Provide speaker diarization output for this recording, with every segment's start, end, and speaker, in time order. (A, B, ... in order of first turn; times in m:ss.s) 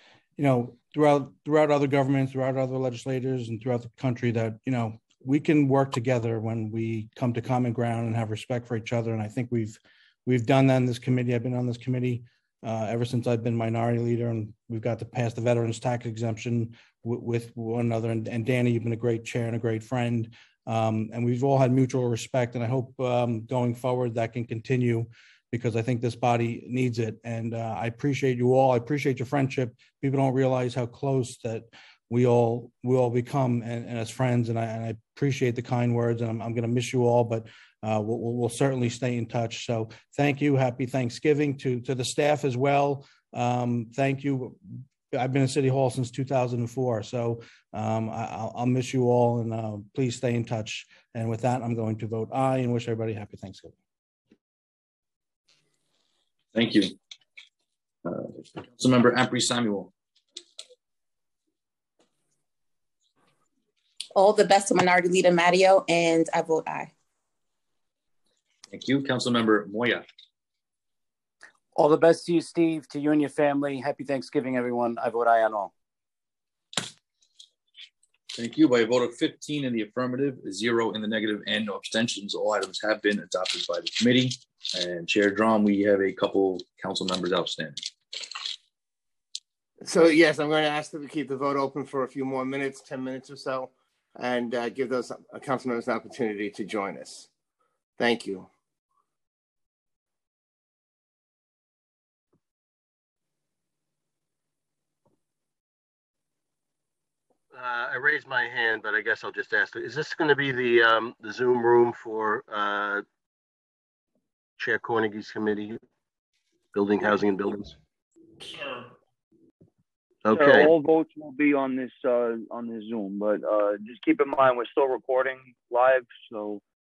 0:00.4-0:53.8 A
0:56.5-0:57.0 B
0:58.0-0:59.9 B
1:04.2-1:06.9 C
1:08.7-1:10.0 B
1:11.8-1:15.7 D
1:18.4-1:27.8 B
1:29.8-1:37.3 E
1:38.0-1:38.5 E
1:47.5-1:53.0 F
1:54.6-1:55.8 F
1:56.7-1:57.8 F
2:00.2-2:00.7 F
2:00.3-2:06.6 G